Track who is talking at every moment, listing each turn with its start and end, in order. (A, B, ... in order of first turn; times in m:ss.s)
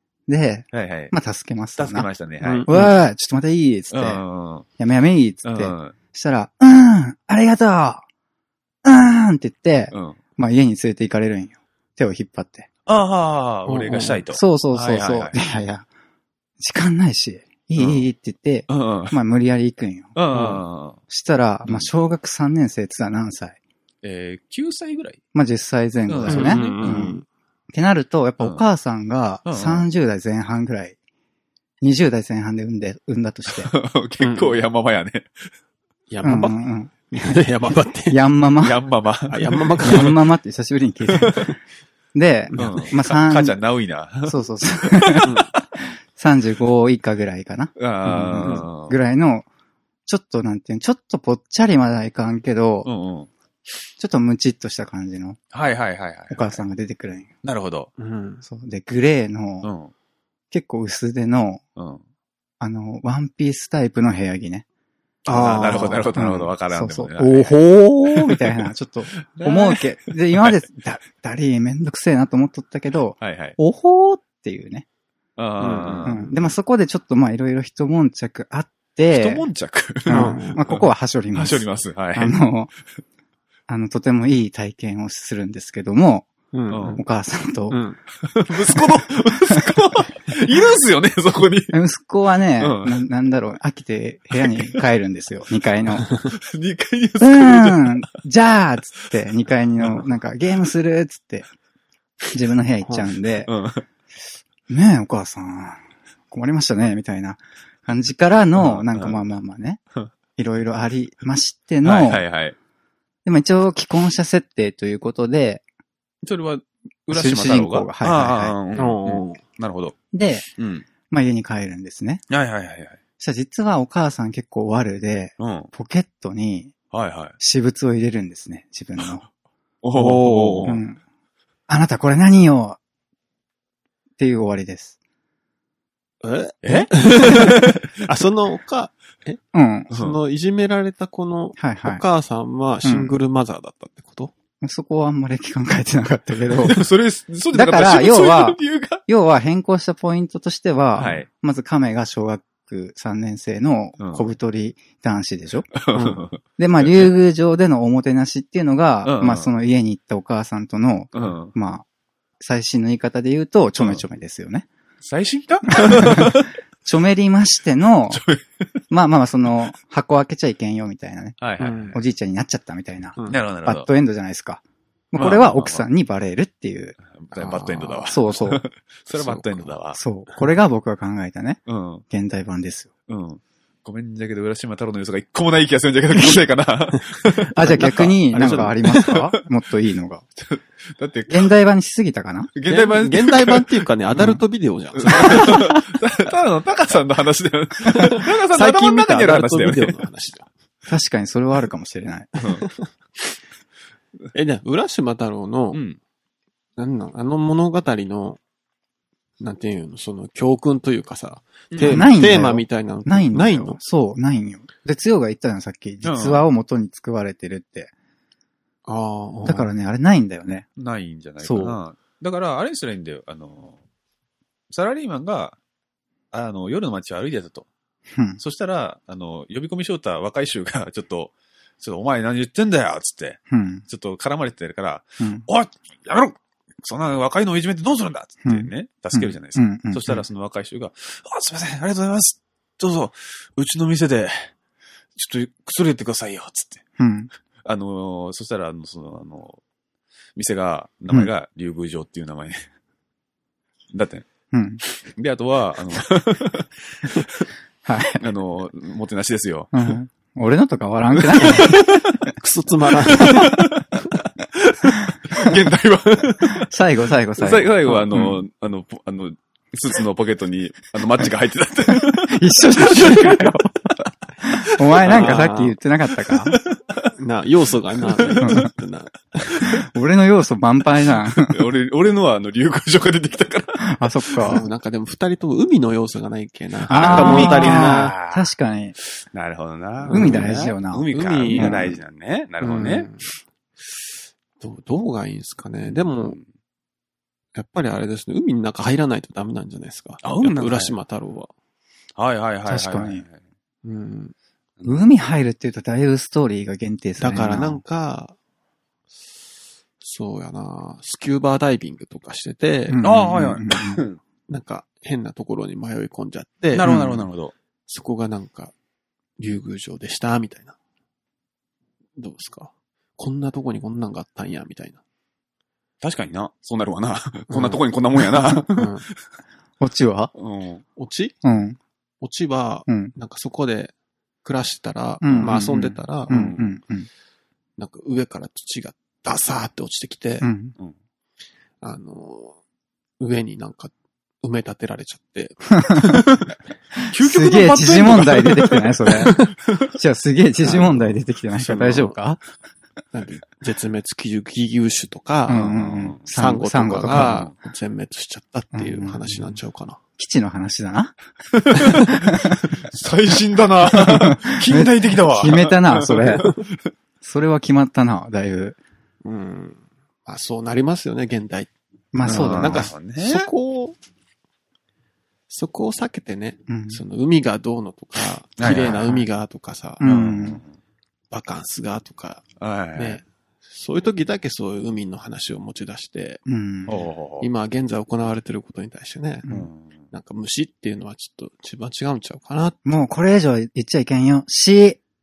0:00.3-0:02.1 A
0:00.7-0:01.1 B
0:01.8-0:02.7 B
0:02.4-0:02.9 C
0:02.7-0:04.2 A
0:03.9-0:04.6 B
0:04.8-0:08.1 A
0:05.4-0:05.9 B
0:08.8-0:12.7 A
0:09.9-0:10.2 B
0:12.9-0:15.4 B
0:13.7-0:14.2 C
0:14.3-0:15.9 A
0:16.6-0:20.2 A
0:17.8-0:18.0 B
0:18.7-0:19.2 B
0:20.1-0:21.0 B
0:20.3-0:20.6 C
0:21.1-0:23.6 A
0:24.0-0:25.2 B
0:25.3-0:27.2 A
0:26.1-0:27.2 B
0:26.3-0:27.2 C
0:27.7-0:31.0 A
0:29.4-0:29.9 B
0:31.8-0:33.7 A
0:33.5-0:35.5 B
0:34.2-0:34.6 C
0:36.1-0:38.2 C
0:36.2-0:37.4 A
0:38.1-0:38.8 A
0:38.6-0:40.1 B
0:39.3-0:40.2 C
0:39.8-0:41.5 A
0:42.1-0:43.6 A
0:42.5-0:42.9 C
0:42.6-0:45.7 B
0:44.2-0:49.5 A
0:45.2-0:45.5 C
0:47.8-0:49.0 B
0:50.1-0:52.9 A
0:52.8-0:53.3 B
0:54.0-0:55.4 A
0:55.5-0:56.6 B
0:56.3-0:57.3 A
0:57.4-0:57.9 B
0:58.0-0:58.4 C
0:58.4-0:59.7 A
0:59.6-0:59.9 B
1:00.5-1:01.6 A
1:01.8-1:02.0 B
1:02.6-1:04.6 A
1:05.3-1:06.1 C
1:05.3-1:07.6 B
1:06.1-1:14.9 A
1:08.1-1:10.6 B
1:13.2-1:13.6 B
1:15.4-1:16.2 B
1:15.6-1:16.3 C
1:16.0-1:19.4 A
1:19.1-1:22.4 B
1:20.0-1:22.7 A
1:20.1-1:20.6 C
1:23.7-1:26.3 A
1:26.5-1:27.0 C
1:26.7-1:27.0 B
1:27.0-1:27.8 A
1:27.7-1:28.0 C
1:28.2-1:31.7 B
1:31.7-1:36.1 A
1:32.6-1:33.0 B
1:34.4-1:34.8 B
1:36.3-1:38.1 B
1:37.2-1:41.4 A
1:42.3-1:43.5 A
1:42.8-1:43.1 C
1:43.5-1:43.8 B
1:44.7-1:49.8 A
1:48.6-1:49.2 B
1:50.4-1:52.2 A
1:51.8-1:52.6 B
1:53.2-1:55.6 A
1:56.2-2:00.0 B
1:57.1-1:58.6 A
1:58.8-1:59.4 C
2:00.1-2:00.5 A
2:00.6-2:00.9 B
2:01.1-2:02.2 A
2:02.3-2:03.0 B
2:03.2-2:06.7 A
2:05.4-2:05.7 B
2:06.9-2:07.4 B
2:07.4-2:09.2 A
2:09.8-2:10.8 B
2:09.9-2:10.8 C
2:10.7-2:11.0 A
2:11.7-2:12.8 A
2:14.2-2:15.0 A
2:16.2-2:24.3 C
2:16.6-2:18.0 B
2:19.5-2:19.9 A
2:19.9-2:20.2 B
2:21.6-2:22.0 A
2:22.8-2:23.2 A
2:24.6-2:26.9 A
2:26.7-2:29.0 B
2:27.5-2:35.7 A
2:31.0-2:31.3 B
2:34.0-2:34.3 B
2:35.7-2:37.1 B
2:36.0-2:36.2 C
2:36.4-2:41.9 A
2:39.0-2:39.5 B
2:41.1-2:41.5 B
2:42.4-2:44.7 A
2:45.0-2:46.5 B
2:45.7-2:48.2 A
2:48.1-2:48.8 B
2:48.9-2:51.4 A
2:51.4-2:52.0 B
2:51.6-2:52.0 C
2:51.9-2:57.0 A
2:53.3-2:53.9 B
2:55.1-2:55.8 B
2:57.1-3:00.0 B
2:57.3-2:58.1 C
2:58.1-2:58.6 A
2:59.1-2:59.7 C
3:00.0-3:02.9 A
3:01.7-3:02.0 B
3:03.1-3:08.1 B
3:06.1-3:06.4 A
3:07.5-3:10.3 A
3:07.7-3:09.2 C
3:10.4-3:11.5 B
3:11.3-3:12.5 A
3:12.6-3:13.8 B
3:12.7-3:15.7 C
3:15.0-3:20.0 B
3:15.4-3:15.7 A
3:18.0-3:20.5 C
3:20.9-3:22.4 A
3:22.4-3:22.7 B
3:22.4-3:22.9 C
3:24.3-3:25.8 C
3:25.7-3:26.0 B
3:26.8-3:28.4 C
3:29.4-3:33.8 C
3:31.7-3:32.1 B
3:31.8-3:37.9 A
3:36.0-3:36.4 B
3:38.9-3:39.7 C
3:39.4-3:40.7 A
3:40.8-3:43.8 B
3:41.4-3:41.8 A
3:44.7-3:45.6 B
3:46.3-3:47.7 B
3:48.1-3:48.4 A
3:48.4-4:04.5 B
3:53.5-3:53.8 A
3:55.2-3:55.4 A
3:58.4-4:00.2 A
4:05.1-4:06.8 B
4:07.0-4:07.3 A
4:07.6-4:09.6 B
4:10.4-4:12.7 B
4:13.9-4:14.2 B
4:14.5-4:14.8 A
4:14.8-4:17.4 B
4:17.8-4:18.2 A
4:18.2-4:19.9 B
4:19.7-4:21.8 A
4:21.1-4:22.2 B
4:21.6-4:23.6 C
4:23.1-4:26.7 B
4:26.4-4:28.0 A
4:27.4-4:33.2 B
4:32.0-4:33.9 A
4:34.4-4:36.6 A
4:34.9-4:35.4 B
4:35.1-4:35.8 C
4:36.5-4:37.1 B
4:37.2-4:39.7 C
4:38.1-4:38.7 B
4:38.4-4:38.7 A
4:39.8-4:41.6 A
4:41.4-4:44.6 B
4:43.8-4:44.7 A
4:44.4-4:48.2 C
4:46.9-4:48.5 B
4:46.9-4:49.0 A
4:49.2-4:53.1 B
4:50.0-4:52.0 C
4:50.1-4:51.9 A
4:52.6-4:53.3 C
4:54.6-4:56.4 C
4:57.6-5:01.5 C
5:00.2-5:01.0 B
5:02.2-5:03.4 B
5:02.7-5:03.2 A
5:03.8-5:04.3 C
5:04.8-5:07.8 A
5:07.2-5:08.4 C
5:10.0-5:13.0 C
5:12.9-5:14.0 A
5:13.0-5:14.2 B
5:14.5-5:16.9 C
5:16.7-5:17.5 B
5:16.8-5:17.3 A
5:17.9-5:18.7 C
5:19.4-5:20.8 C
5:22.2-5:25.0 C
5:26.0-5:28.9 B
5:27.5-5:27.8 C
5:28.7-5:29.1 C
5:29.8-5:30.3 A
5:30.3-5:30.8 B
5:31.0-5:31.4 C
5:31.4-5:31.8 A
5:32.2-5:33.9 C
5:32.9-5:33.1 A
5:34.4-5:36.5 C
5:35.2-5:37.1 A
5:36.3-5:36.7 B
5:37.8-5:40.5 C
5:40.4-5:40.7 A
5:41.8-5:42.6 C
5:43.2-5:46.3 C
5:45.8-5:46.2 A
5:47.1-5:48.9 B
5:47.1-5:52.4 A
5:49.1-5:49.8 C
5:50.6-5:52.1 C
5:53.1-5:55.6 C
5:55.5-5:57.5 A
5:55.5-5:56.2 B
5:56.3-6:00.0 C
5:57.1-5:57.5 B
5:58.7-5:59.5 A
6:00.2-6:01.1 A
6:01.5-6:06.9 B
6:02.1-6:02.7 A
6:03.9-6:06.5 A
6:07.2-6:08.8 A
6:09.2-6:14.0 C
6:12.1-6:12.9 A
6:12.2-6:13.5 B
6:15.5-6:20.0 C
6:16.7-6:17.0 A
6:18.6-6:19.1 B
6:18.7-6:19.3 A
6:20.0-6:20.6 A
6:20.0-6:20.7 B
6:21.3-6:22.4 C
6:22.6-6:23.2 B
6:23.0-6:26.4 C
6:26.4-6:27.0 A
6:26.9-6:27.5 B
6:27.4-6:29.5 C
6:29.5-6:30.0 B
6:30.1-6:32.8 C
6:32.8-6:35.0 A